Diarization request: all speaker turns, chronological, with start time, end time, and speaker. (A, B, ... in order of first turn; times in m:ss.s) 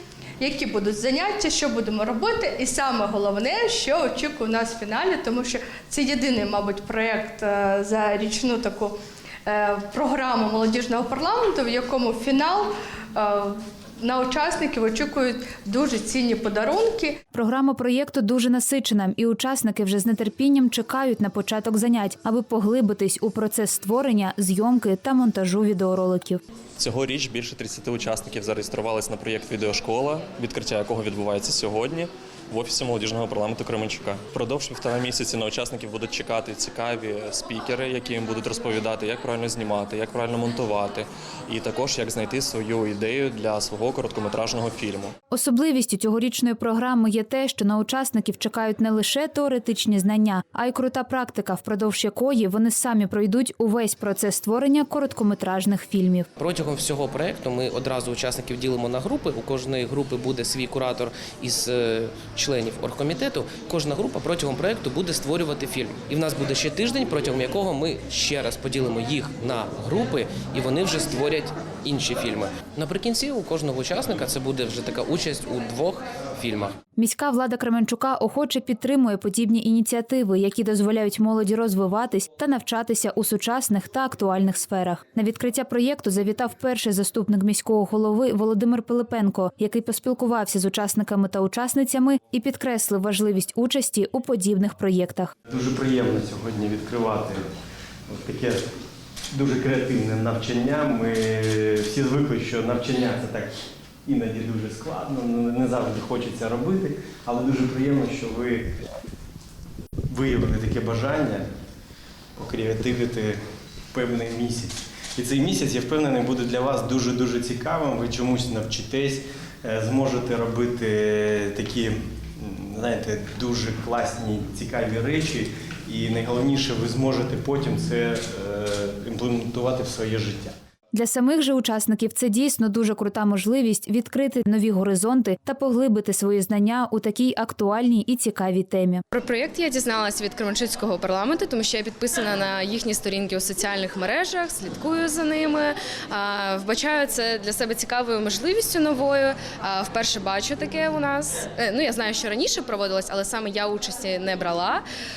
0:00.4-0:17.2 A
0:17.3-0:26.4 B
0:26.8-0:45.1 C
0:45.3-0:56.3 B
0:56.4-1:16.8 D
1:17.0-1:35.3 B
1:35.5-1:37.5 E
1:38.1-1:38.8 E
1:39.3-1:48.7 E
1:50.1-1:51.5 E
1:52.4-1:53.4 E
1:53.9-2:10.5 E
2:10.9-2:19.0 B
2:19.1-2:34.8 F